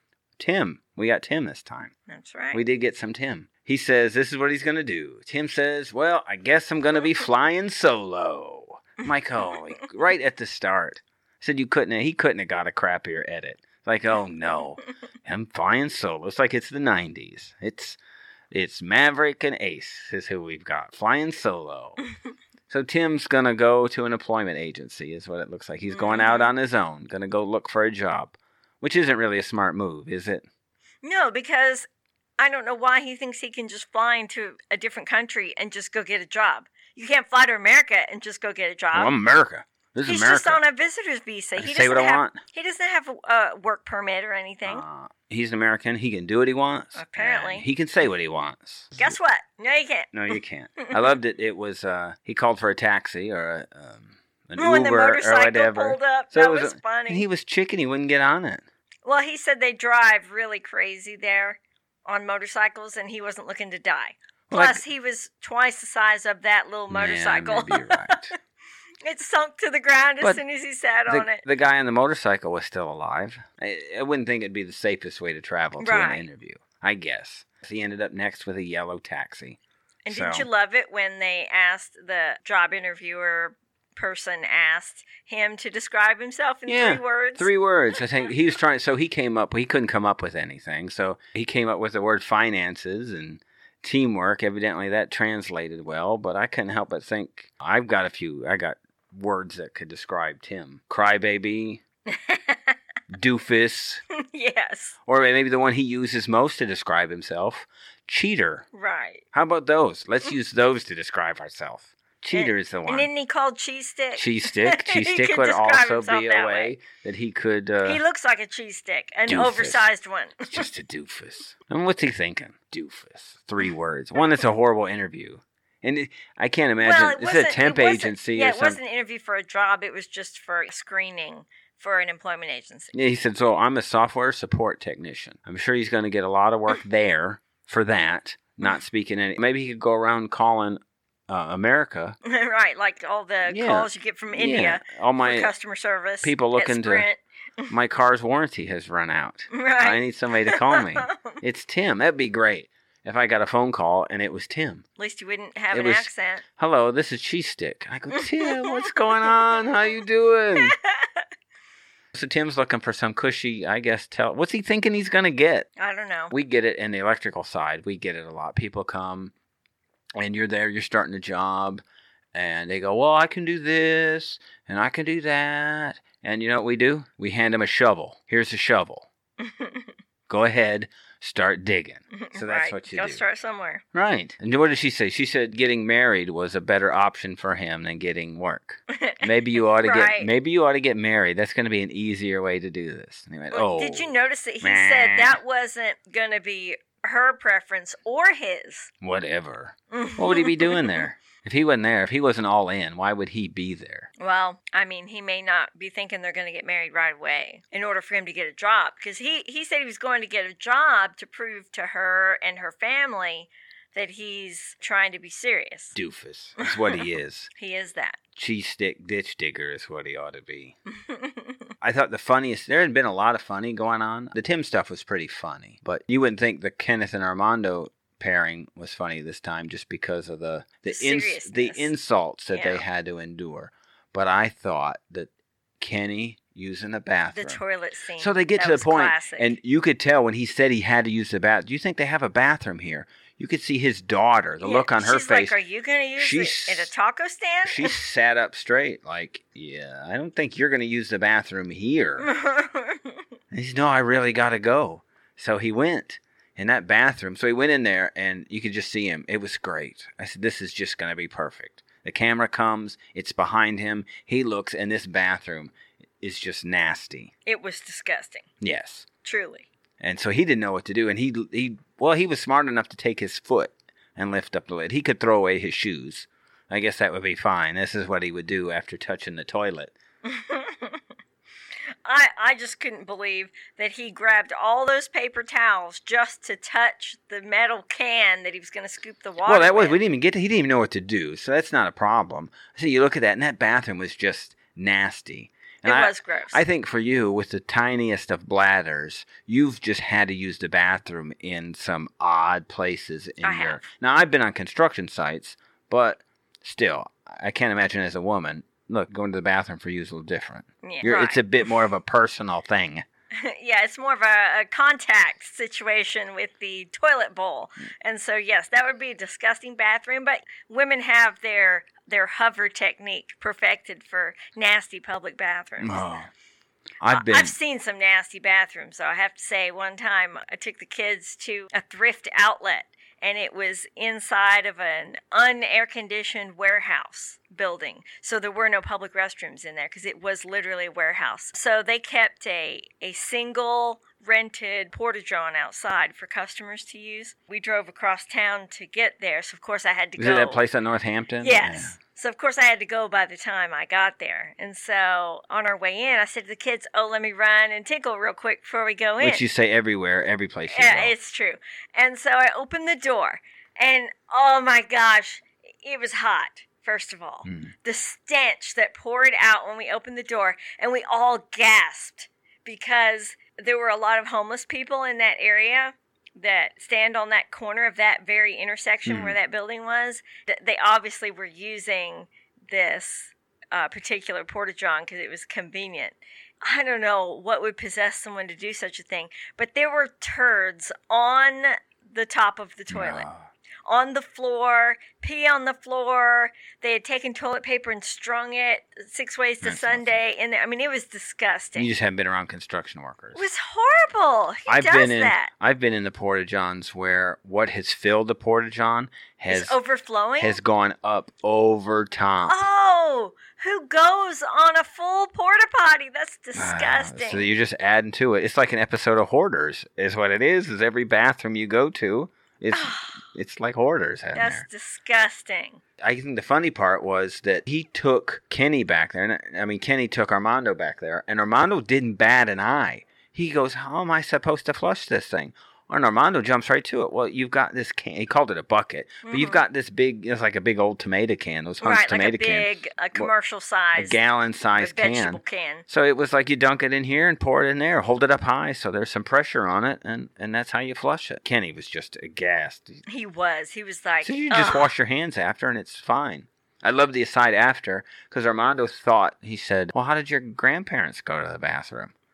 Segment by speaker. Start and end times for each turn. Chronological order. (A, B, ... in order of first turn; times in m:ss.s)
0:00.4-0:01.9 A
0:02.1-0:02.6 B
0:02.5-0:18.0 A
0:18.5-0:22.0 A
0:22.7-0:30.4 A
0:25.9-0:26.5 B
0:31.0-0:31.9 B
0:32.4-0:39.1 B
0:38.9-0:40.6 A
0:40.0-0:44.8 B
0:41.6-0:42.4 A
0:44.6-0:49.1 A
0:46.9-0:47.6 B
0:49.0-0:51.1 B
0:50.1-0:58.6 A
0:54.6-0:57.2 B
0:59.0-1:08.2 B
1:04.5-1:04.8 A
1:06.9-1:08.3 A
1:09.0-1:11.4 B
1:11.1-1:19.6 A
1:15.8-1:16.3 B
1:20.0-1:27.5 B
1:20.1-1:20.5 A
1:26.7-1:41.8 A
1:42.1-1:42.8 B
1:43.1-1:44.0 A
1:44.1-1:45.0 B
1:45.1-1:48.6 A
1:48.7-1:49.2 B
1:49.3-1:53.1 A
1:52.3-1:56.7 B
1:54.1-1:58.0 A
1:57.8-2:00.6 B
1:59.3-1:59.8 A
2:00.5-2:08.8 A
2:06.8-2:12.9 B
2:12.9-2:22.2 A
2:22.2-2:27.7 B
2:23.4-2:25.5 A
2:26.2-2:27.1 A
2:27.7-2:34.8 A
2:29.5-2:31.3 B
2:35.0-2:36.4 B
2:35.7-2:40.8 A
2:38.1-2:39.8 B
2:40.6-2:41.2 B
2:42.1-2:45.7 A
2:45.8-2:46.3 B
2:46.3-2:49.3 A
2:50.2-2:51.8 A
2:52.3-2:59.1 A
2:59.4-2:59.9 B
3:00.3-3:03.2 A
3:02.1-3:03.8 B
3:03.9-3:15.4 A
3:08.9-3:10.3 B
3:13.5-3:18.9 B
3:19.0-3:24.1 A
3:19.9-3:21.0 B
3:24.2-3:36.0 B
3:35.9-3:37.5 A
3:36.6-3:37.0 B
3:37.5-3:38.2 B
3:38.3-3:40.8 A
3:40.9-3:41.7 B
3:41.8-3:57.6 A
3:50.9-3:51.9 B
3:52.5-3:52.8 B
3:57.3-3:59.5 B
3:58.2-4:05.5 A
4:04.6-4:08.0 B
4:06.2-4:06.9 A
4:07.6-4:12.3 A
4:12.2-4:13.2 B
4:13.5-4:27.3 A
4:27.4-4:28.5 B
4:28.6-4:29.1 A
4:29.2-4:29.6 B
4:30.0-4:40.0 A
4:40.2-4:41.0 B
4:42.0-4:50.0 B
4:49.4-5:13.0 A
4:55.8-4:56.6 B
5:03.4-5:03.8 B
5:10.8-5:11.7 B
5:13.3-5:26.1 B
5:25.8-5:26.3 A
5:27.0-5:27.6 A
5:27.1-5:50.6 B
5:50.2-5:52.0 A
5:51.4-5:59.4 B
5:59.2-6:01.1 A
6:00.7-6:33.3 B
6:07.4-6:07.7 A
6:19.0-6:19.3 A
6:32.9-6:33.5 A
6:33.8-6:41.9 B
6:39.6-6:40.2 A
6:41.7-6:43.4 A
6:43.3-6:45.5 B
6:44.7-6:49.8 A
6:49.5-6:50.6 B
6:50.4-6:52.6 A
6:52.4-6:57.5 B
6:56.5-7:04.6 A
7:02.7-7:03.2 B
7:04.3-7:05.8 B
7:06.0-7:23.3 A
7:19.2-7:19.6 B
7:21.8-7:24.2 B
7:24.0-7:33.0 A
7:24.7-7:25.8 B
7:33.0-7:34.9 B
7:34.2-7:42.1 A